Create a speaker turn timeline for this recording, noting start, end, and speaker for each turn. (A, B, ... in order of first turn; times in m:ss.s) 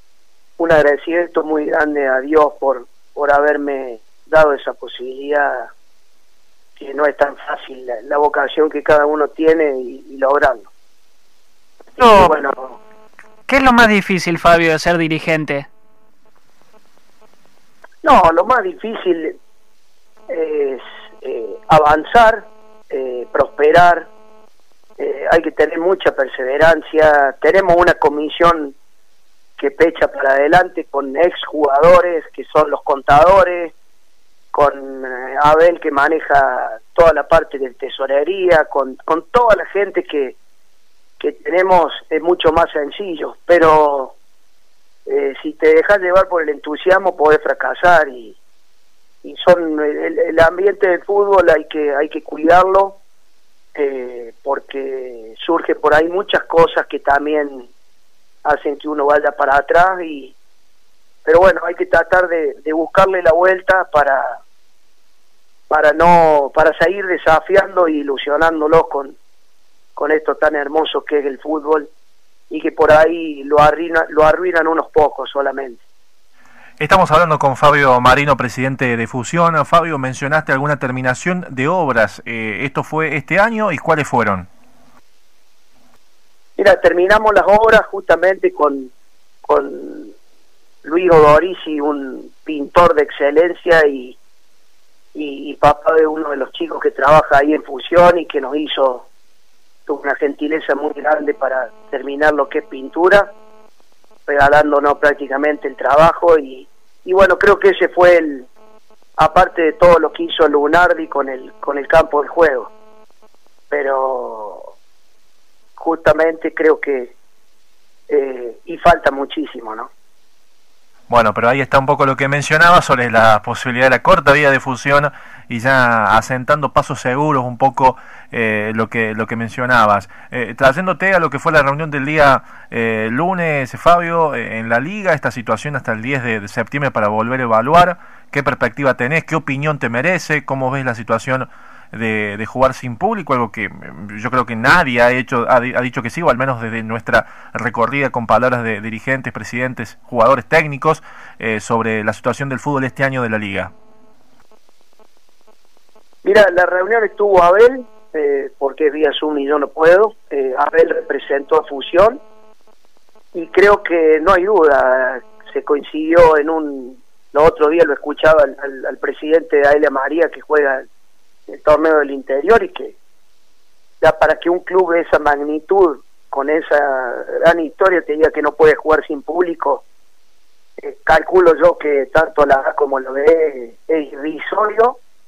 0:00.6-0:05.7 A
0:06.8-0:10.7 A
0:12.0-0:12.3 B
0:12.0-0:12.8 A
0:13.5-0:15.7 B
0:18.0-0:19.4 A
0:20.3-0:24.1 A
0:25.0-0:28.8 A
0:29.6-0:33.7 A
0:34.5-0:40.4 A
0:41.2-0:44.1 A
0:45.0-0:48.4 A
0:49.2-0:53.0 A
0:53.8-0:57.7 A
0:58.4-1:00.4 A
1:01.2-1:04.4 A
1:05.7-1:09.2 A
1:10.0-1:11.9 A
1:12.5-1:15.8 A
1:16.8-1:24.5 C
1:26.6-1:28.9 A
1:29.4-1:30.1 A
1:30.8-1:34.2 A
1:35.1-1:39.1 A
1:39.9-1:43.3 A
1:44.3-1:48.5 A
1:49.2-1:52.7 A
1:53.7-1:54.7 A
1:55.8-1:57.1 A
1:58.1-1:59.9 A
2:01.1-2:33.7 C
2:36.2-2:42.2 A
2:43.3-2:50.8 A
2:51.5-2:53.0 A
2:54.0-2:59.8 A
3:00.8-3:05.0 A